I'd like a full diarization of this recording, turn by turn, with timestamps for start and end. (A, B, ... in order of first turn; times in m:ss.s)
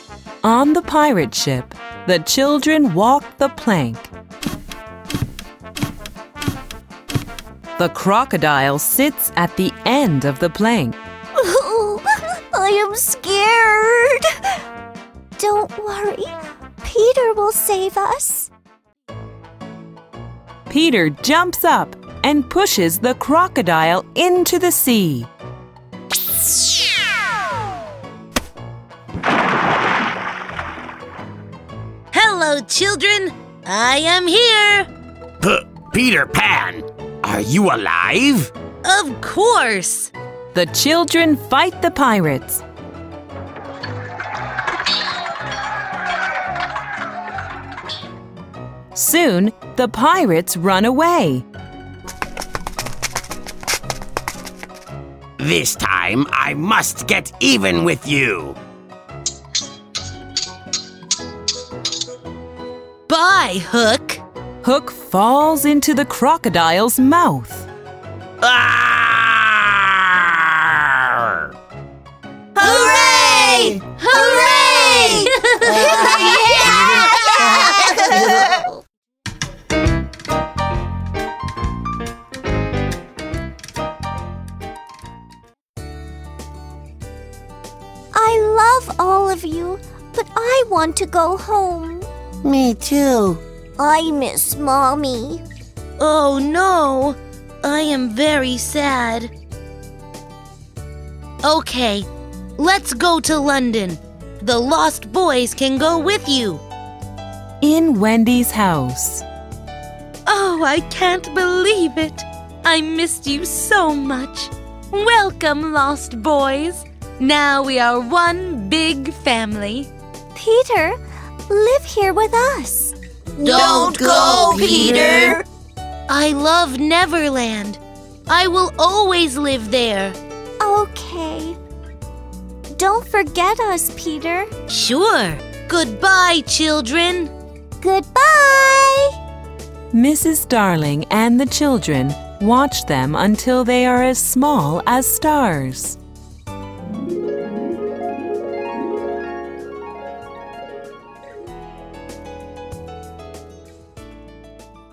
0:00.4-0:04.1 A
0:07.8-0:11.0 A
0:11.4-0:14.3 B
0:15.4-0:18.5 B
0:20.7-0:25.3 A
0:32.1-0:34.9 C
0:35.4-0:38.5 D
0:38.8-0:40.1 C
0:40.5-0:42.6 A
0:48.9-0:51.4 A
0:55.4-0:58.6 D
1:03.1-1:04.2 C
1:04.6-1:07.7 A
1:08.4-1:11.4 D
1:12.6-1:18.4 C
1:12.7-1:18.4 D
1:28.1-1:32.1 B
1:32.4-1:33.4 D
1:33.8-1:35.4 B
1:36.0-1:39.3 C
1:41.4-1:46.6 C
1:47.6-1:49.2 A
1:50.2-1:59.9 C
2:00.3-2:05.4 B
2:03.4-2:05.4 C
2:06.1-2:10.2 C
2:10.6-2:11.6 B
2:12.7-2:14.5 B
2:14.7-2:17.3 C
2:17.8-2:19.1 B
2:19.9-2:26.0 A